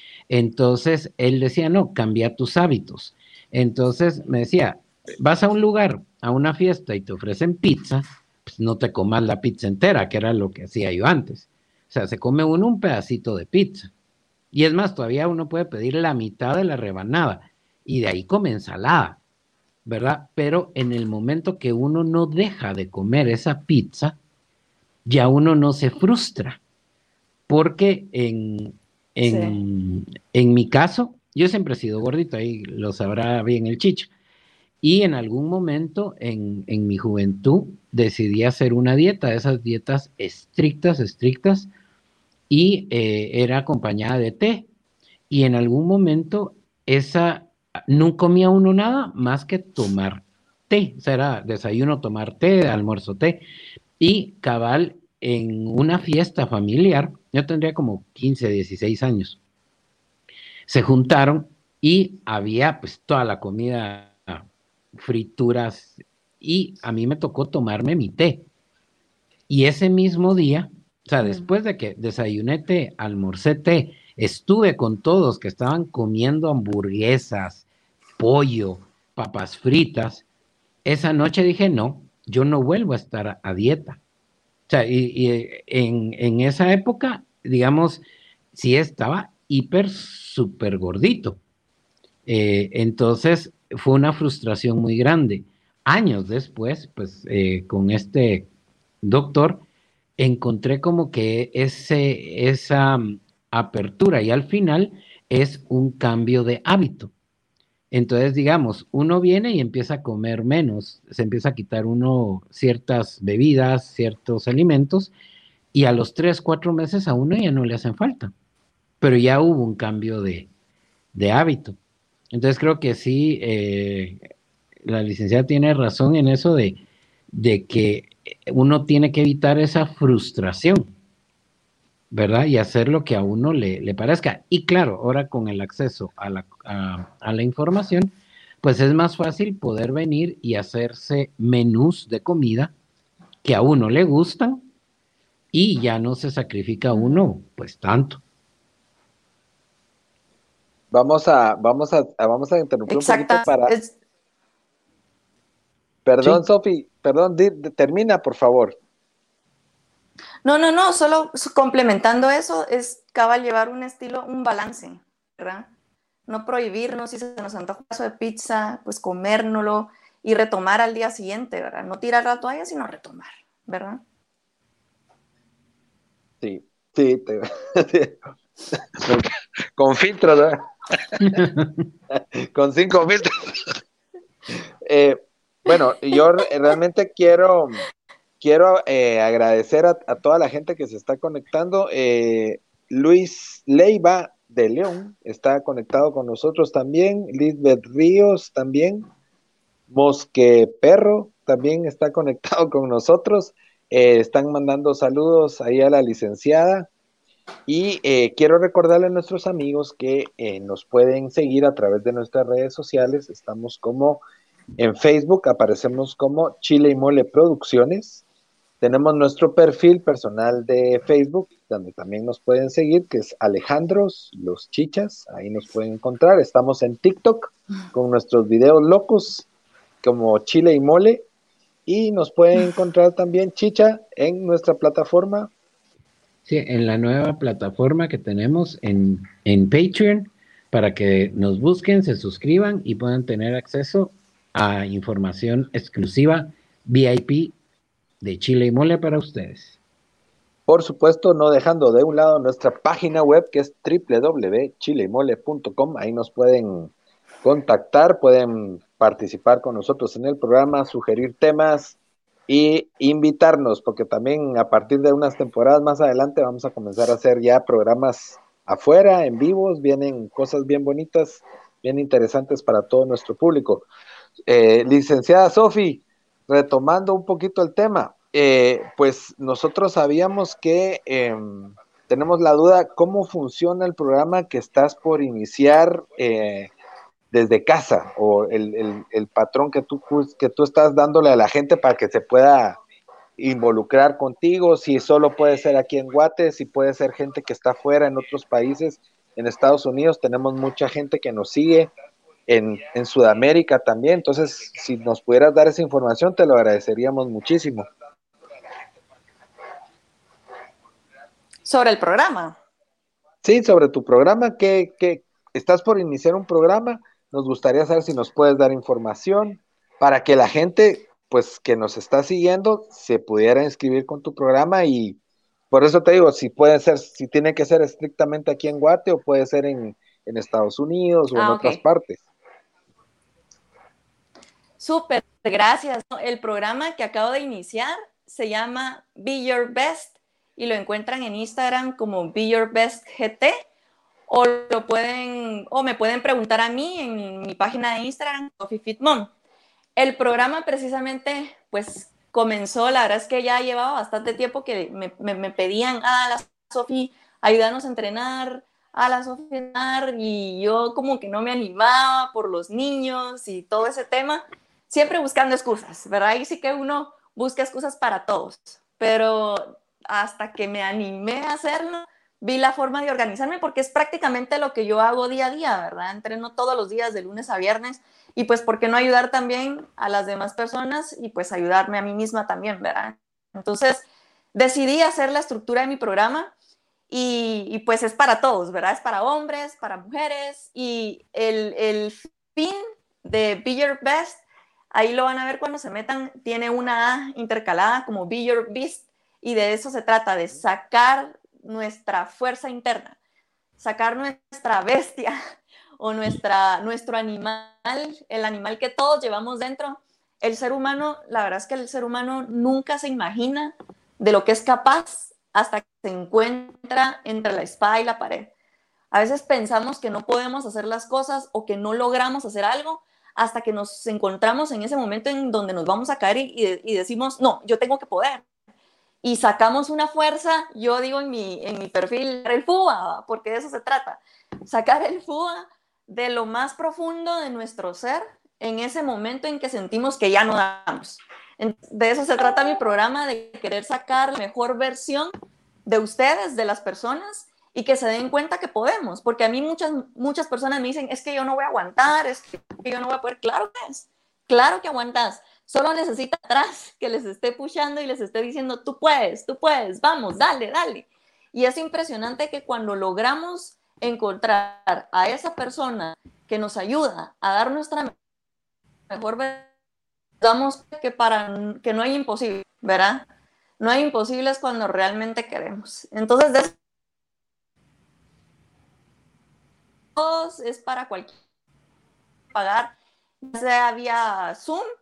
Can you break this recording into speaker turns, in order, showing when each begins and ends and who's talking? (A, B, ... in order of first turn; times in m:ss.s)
0:00.3-0:13.9 A
0:14.5-0:19.2 A
0:19.8-0:24.2 A
0:25.0-0:26.6 A
0:27.5-0:34.1 A
0:29.2-0:29.6 B
0:34.8-0:41.7 A
0:42.5-0:44.7 A
0:45.3-0:53.4 A
0:54.0-0:59.4 A
1:00.7-1:08.5 A
1:09.5-1:17.6 A
1:11.2-1:11.5 B
1:18.2-1:20.2 A
1:20.8-1:24.0 A
1:24.7-1:31.4 A
1:32.2-1:38.5 A
1:39.0-1:39.6 A
1:40.2-1:47.1 A
1:47.9-1:55.1 A
1:55.7-1:58.3 A
1:59.0-2:00.5 A
2:01.1-2:01.8 A
2:02.3-2:04.2 A
2:04.8-2:06.8 A
2:07.3-2:10.9 A
2:12.1-2:22.7 A
2:23.4-2:24.6 A
2:25.5-2:28.2 A
2:26.9-2:27.2 B
2:30.9-2:33.7 C
2:32.9-2:33.9 B
2:36.0-2:38.8 C
2:40.4-2:45.7 B
2:46.3-2:54.0 B
2:56.4-2:58.2 C
2:59.0-3:01.4 C
3:01.2-3:01.7 A
3:02.5-3:03.7 C
3:04.8-3:07.8 C
3:08.4-3:19.1 C
3:19.9-3:26.9 C
3:27.7-3:34.2 C
3:34.8-3:38.2 C
3:38.8-3:49.4 C
3:50.0-3:51.3 C
3:51.8-3:55.5 C
3:56.4-4:07.6 A
4:08.2-4:09.8 A
4:10.7-4:16.9 C
4:17.4-4:22.0 C
4:22.5-4:33.8 C
4:34.5-4:46.7 C
4:47.3-4:52.8 C
4:53.4-5:01.9 C
5:02.5-5:07.9 C
5:11.6-5:12.6 B
5:13.4-5:25.2 C
5:25.7-5:32.2 C
5:31.3-5:31.8 B
5:34.8-5:43.6 B
5:44.3-5:49.3 B
5:50.0-6:26.5 B
6:27.1-6:43.2 B
6:43.8-6:45.4 B
6:46.0-6:58.5 B
6:59.1-7:08.4 B
7:09.2-7:25.3 B
7:25.8-7:48.1 B
7:49.1-7:49.7 B
7:50.4-7:53.2 B
7:53.8-7:56.8 B
8:00.2-8:01.4 B
8:02.5-8:04.8 B